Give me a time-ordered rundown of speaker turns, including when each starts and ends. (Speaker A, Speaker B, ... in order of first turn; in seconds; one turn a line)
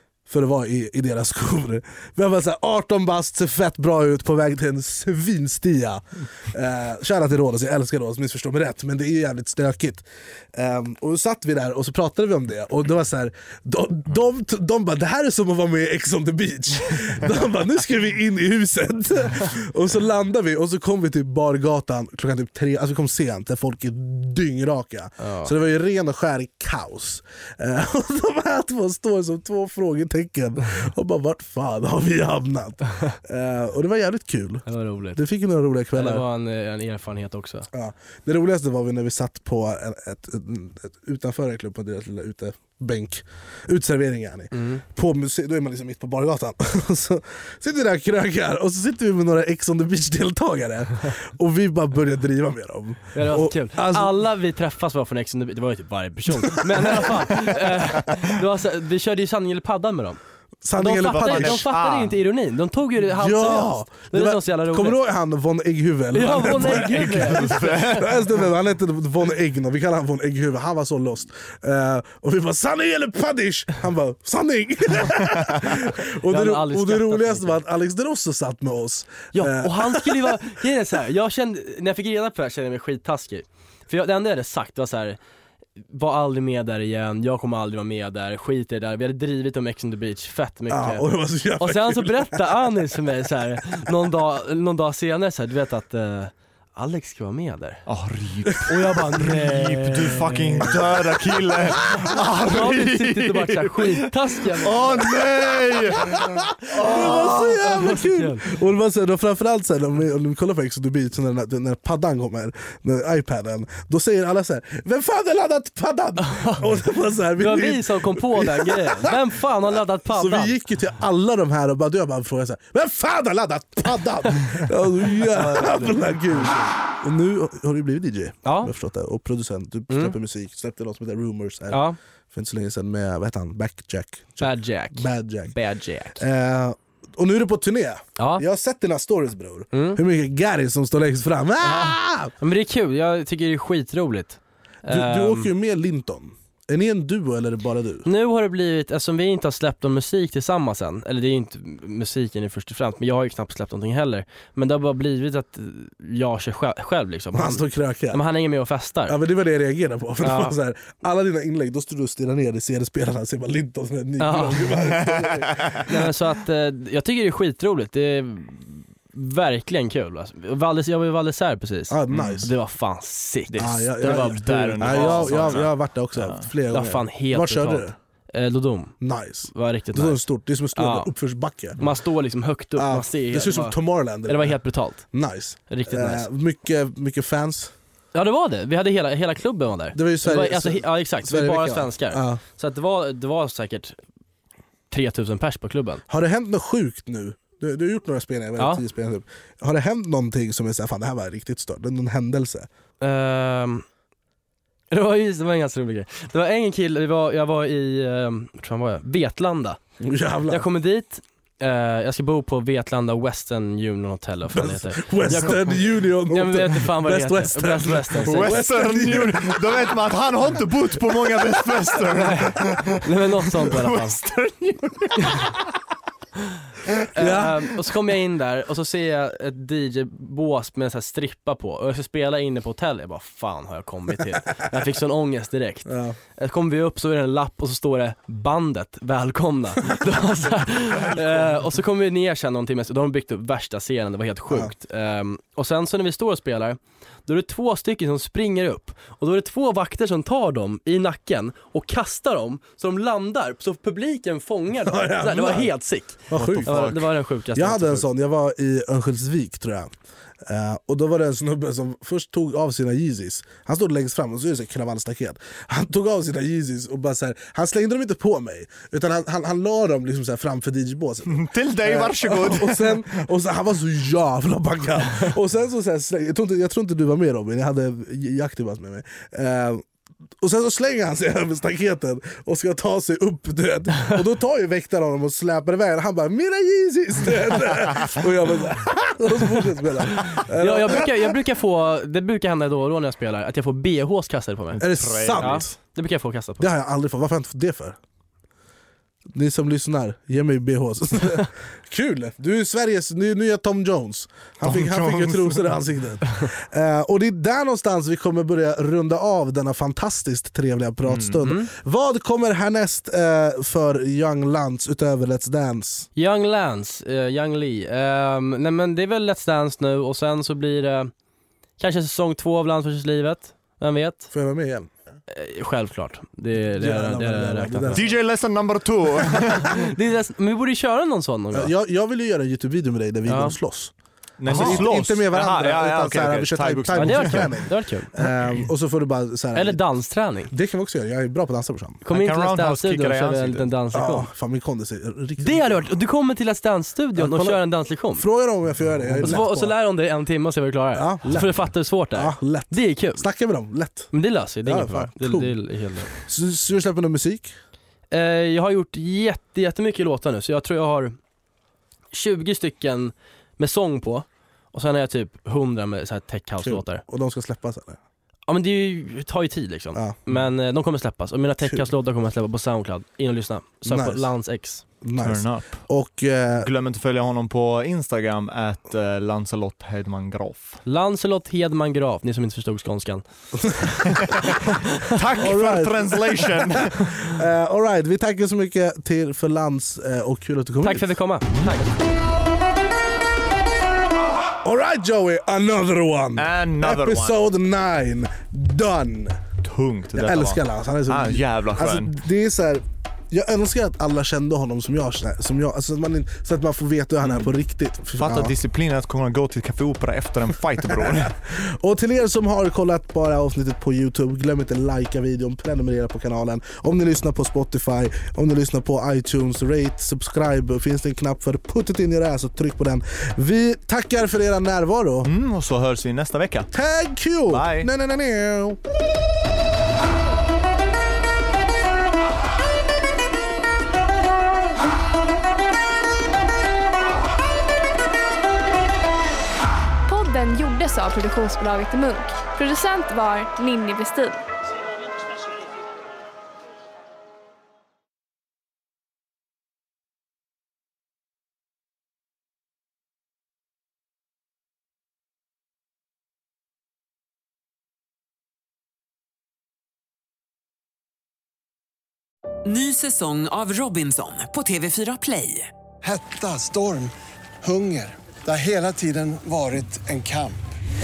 Speaker A: 0.3-36.2
Speaker B: 25.2-25.5
Speaker B: 34.7-35.2
Speaker B: 35.9-37.7
Speaker A: 37.7-54.2
Speaker B: 44.5-44.8
Speaker B: 53.1-60.2
Speaker A: 56.4-57.2
Speaker A: 60.6-61.7
Speaker B: 60.7-65.0
Speaker C: 61.1-62.2
Speaker A: 63.1-80.4
Speaker B: 66.1-68.1
Speaker C: 66.6-68.1
Speaker B: 76.2-77.6
Speaker B: 79.3-85.2
Speaker B: 85.9-91.0
Speaker A: 90.7-92.7
Speaker B: 91.6-97.8
Speaker C: 97.9-103.9
Speaker B: 98.7-100.8
Speaker B: 102.0-105.0
Speaker C: 104.6-107.5
Speaker A: 105.8-135.5
Speaker B: 106.9-108.5
Speaker B: 116.2-116.7
Speaker B: 117.4-120.5
Speaker B: 125.2-126.5
Speaker B: 128.4-128.7
Speaker B: 129.9-130.2
Speaker B: 131.7-132.0
Speaker B: 134.4-136.2
Speaker A: 136.2-142.3
Speaker B: 138.2-138.4
Speaker B: 139.7-140.0
Speaker B: 142.4-145.5
Speaker A: 144.9-148.1
Speaker B: 148.0-159.2
Speaker A: 157.3-158.2
Speaker A: 159.1-165.9
Speaker B: 160.2-160.5
Speaker B: 164.2-164.8
Speaker C: 165.0-165.8
Speaker B: 165.9-175.7
Speaker A: 171.9-172.5
Speaker C: 172.1-172.4
Speaker A: 173.6-177.9
Speaker C: 174.0-176.4
Speaker B: 176.7-178.9
Speaker A: 179.0-181.8
Speaker B: 179.5-181.1
Speaker B: 181.8-185.1
Speaker A: 182.8-187.7
Speaker B: 185.7-186.3
Speaker B: 188.1-194.0
Speaker A: 189.9-192.4
Speaker B: 194.9-196.0
Speaker A: 196.1-202.7
Speaker B: 198.6-198.8
Speaker B: 203.0-203.8
Speaker B: 204.9-209.8
Speaker A: 210.0-210.7
Speaker B: 210.5-218.6
Speaker A: 214.5-219.9
Speaker C: 218.2-223.0
Speaker B: 222.1-224.2
Speaker C: 223.5-225.6
Speaker B: 227.1-258.1
Speaker A: 227.1-227.6
Speaker A: 235.8-236.2
Speaker A: 254.8-255.7
Speaker A: 256.3-256.7
Speaker C: 256.3-257.1
Speaker A: 257.5-259.9
Speaker A: 260.4-279.8
Speaker C: 271.3-273.0
Speaker A: 280.4-291.3
Speaker B: 290.6-296.7
Speaker A: 294.8-295.8
Speaker C: 294.9-295.6
Speaker A: 296.6-298.0
Speaker A: 299.3-316.1
Speaker C: 304.6-305.7
Speaker C: 311.1-311.4
Speaker B: 316.1-321.1
Speaker B: 321.8-324.3
Speaker A: 324.3-324.9
Speaker B: 325.3-328.0
Speaker A: 326.6-328.2
Speaker C: 327.9-329.9
Speaker B: 329.4-331.7
Speaker A: 331.5-333.9
Speaker B: 333.3-333.6
Speaker C: 334.4-337.5
Speaker A: 334.5-339.8
Speaker B: 334.5-334.9
Speaker B: 336.9-338.1
Speaker B: 339.5-340.5
Speaker A: 340.5-342.0
Speaker B: 342.1-344.3
Speaker C: 342.1-343.7
Speaker A: 343.9-345.9
Speaker B: 345.4-348.2
Speaker A: 347.1-349.8
Speaker B: 349.2-353.2
Speaker A: 350.9-351.6
Speaker A: 352.1-355.5
Speaker B: 354.1-356.1
Speaker A: 356.1-357.5
Speaker B: 358.1-361.2
Speaker B: 362.1-367.0
Speaker A: 366.6-368.0
Speaker B: 368.5-374.8
Speaker A: 369.9-370.2
Speaker A: 373.8-374.3
Speaker A: 375.0-376.7
Speaker C: 375.2-375.9
Speaker C: 376.6-380.8
Speaker B: 380.8-383.2
Speaker A: 383.6-384.0
Speaker B: 384.7-385.0
Speaker C: 385.1-387.3
Speaker A: 385.4-391.1
Speaker B: 390.8-391.8
Speaker A: 394.6-399.4
Speaker C: 396.4-397.4
Speaker C: 399.6-402.1
Speaker A: 400.1-408.5
Speaker C: 408.2-411.4
Speaker A: 411.5-425.3
Speaker C: 425.2-426.7
Speaker A: 426.7-428.8
Speaker C: 427.5-427.9
Speaker D: 440.1-444.4
Speaker E: 462.6-465.7
Speaker F: 466.0-470.7